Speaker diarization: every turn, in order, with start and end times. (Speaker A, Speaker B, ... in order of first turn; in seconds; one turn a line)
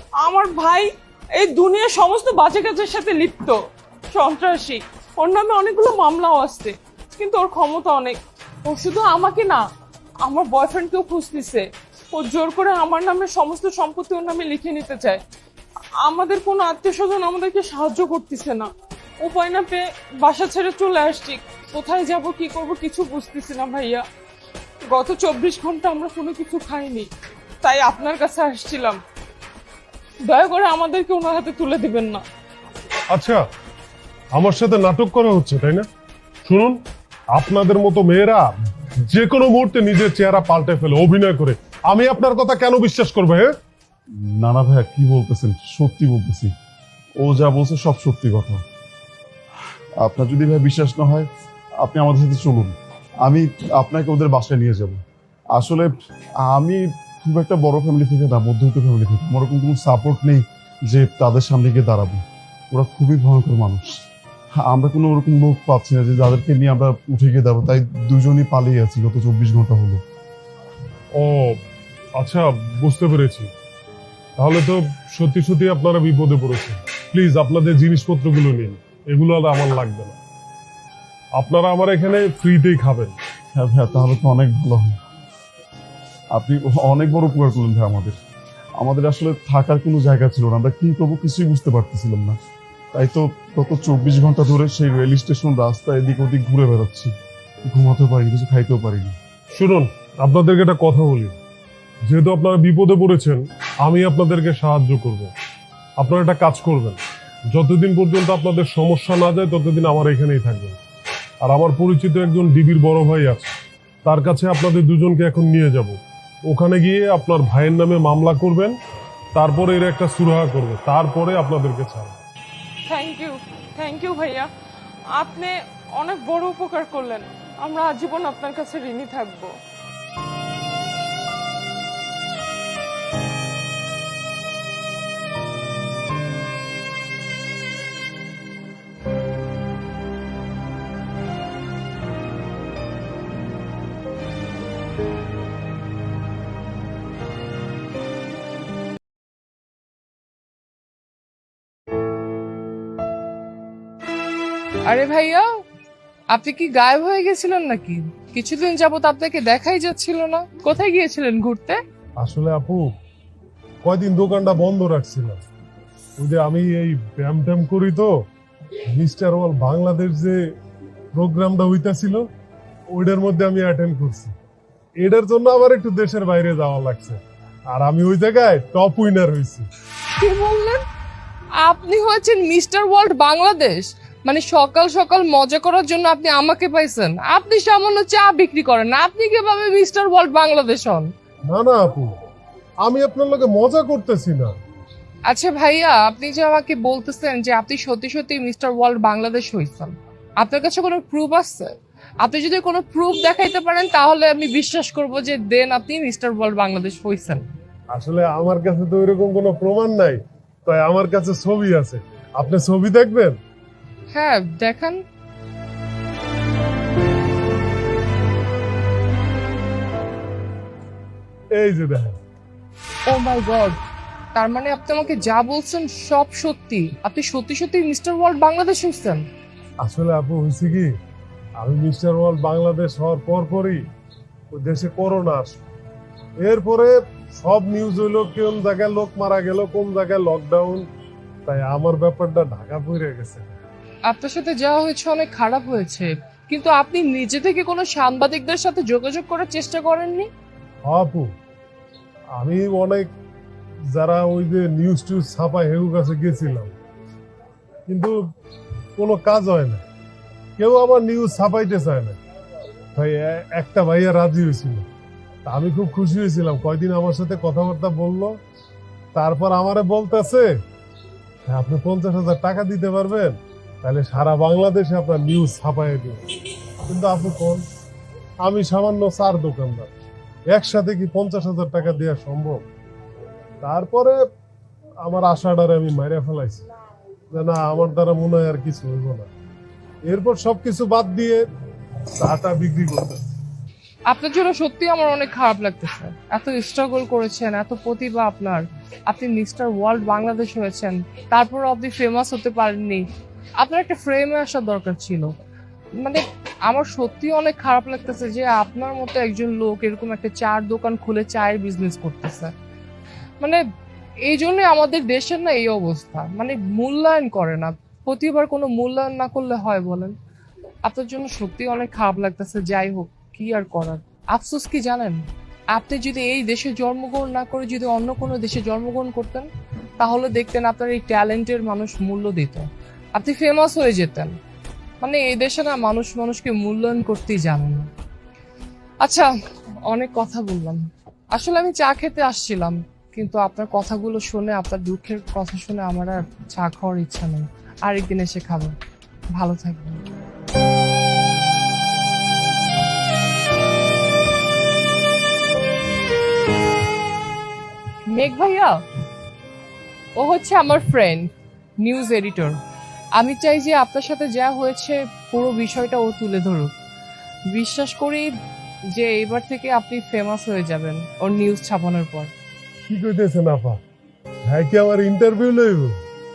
Speaker A: 0.2-3.6
Speaker A: 4.1-9.7
Speaker A: 10.2-15.2
Speaker A: 16.0-18.7
Speaker A: 19.2-24.0
Speaker A: 24.9-27.1
Speaker A: 27.6-29.0
Speaker A: 30.2-32.2
Speaker B: 33.1-33.5
Speaker B: 34.3-35.9
Speaker B: 36.5-43.5
Speaker C: 44.1-46.5
Speaker C: 47.2-48.6
Speaker C: 50.0-55.0
Speaker C: 55.5-55.9
Speaker C: 56.4-64.0
Speaker C: 64.6-70.0
Speaker B: 71.2-71.6
Speaker B: 72.2-73.5
Speaker B: 74.4-80.2
Speaker B: 81.3-83.1
Speaker C: 83.5-85.0
Speaker C: 86.3-88.2
Speaker C: 88.8-92.4
Speaker C: 92.9-97.1
Speaker C: 97.7-99.2
Speaker B: 99.5-101.4
Speaker B: 102.0-105.3
Speaker B: 106.0-107.0
Speaker B: 107.5-110.8
Speaker B: 111.4-113.5
Speaker B: 114.0-118.8
Speaker B: 119.3-122.2
Speaker A: 122.9-124.5
Speaker A: 125.1-129.6
Speaker D: 154.9-155.5
Speaker D: 156.3-161.8
Speaker B: 162.2-162.9
Speaker B: 163.8-165.4
Speaker B: 166.2-168.3
Speaker B: 168.9-170.6
Speaker B: 171.1-172.3
Speaker B: 172.9-174.3
Speaker B: 175.0-179.7
Speaker D: 180.2-180.8
Speaker D: 181.6-191.1
Speaker B: 191.5-192.2
Speaker B: 192.8-194.6
Speaker D: 195.3-207.4
Speaker B: 207.9-213.4
Speaker D: 214.1-215.0
Speaker B: 221.5-222.2
Speaker D: 223.1-223.8
Speaker D: 224.3-229.3
Speaker B: 229.8-231.0
Speaker B: 231.6-233.9
Speaker B: 234.5-235.6
Speaker B: 236.4-240.9
Speaker B: 241.5-243.6
Speaker D: 244.1-250.3
Speaker B: 250.9-251.3
Speaker B: 252.3-253.1
Speaker B: 253.9-256.7
Speaker B: 257.9-258.2
Speaker B: 259.0-259.8
Speaker B: 260.6-262.2
Speaker B: 262.9-264.9
Speaker B: 265.5-268.4
Speaker B: 269.1-270.6
Speaker B: 271.5-276.2
Speaker B: 276.9-277.6
Speaker B: 278.4-279.9
Speaker B: 280.5-282.6
Speaker B: 283.6-284.2
Speaker B: 285.0-286.7
Speaker B: 287.3-289.3
Speaker B: 290.1-291.4
Speaker B: 292.2-293.3
Speaker D: 294.1-303.1
Speaker D: 303.6-305.3
Speaker D: 306.0-312.5
Speaker D: 314.2-320.1
Speaker D: 320.9-325.2
Speaker D: 325.7-334.4
Speaker D: 335.0-337.9
Speaker D: 339.0-339.3
Speaker D: 339.9-348.8
Speaker D: 349.4-350.0
Speaker D: 358.1-358.8
Speaker D: 360.2-361.3
Speaker D: 361.8-362.6
Speaker D: 363.2-366.7
Speaker D: 367.5-368.3
Speaker D: 368.9-372.3
Speaker B: 372.9-373.8
Speaker B: 374.5-376.0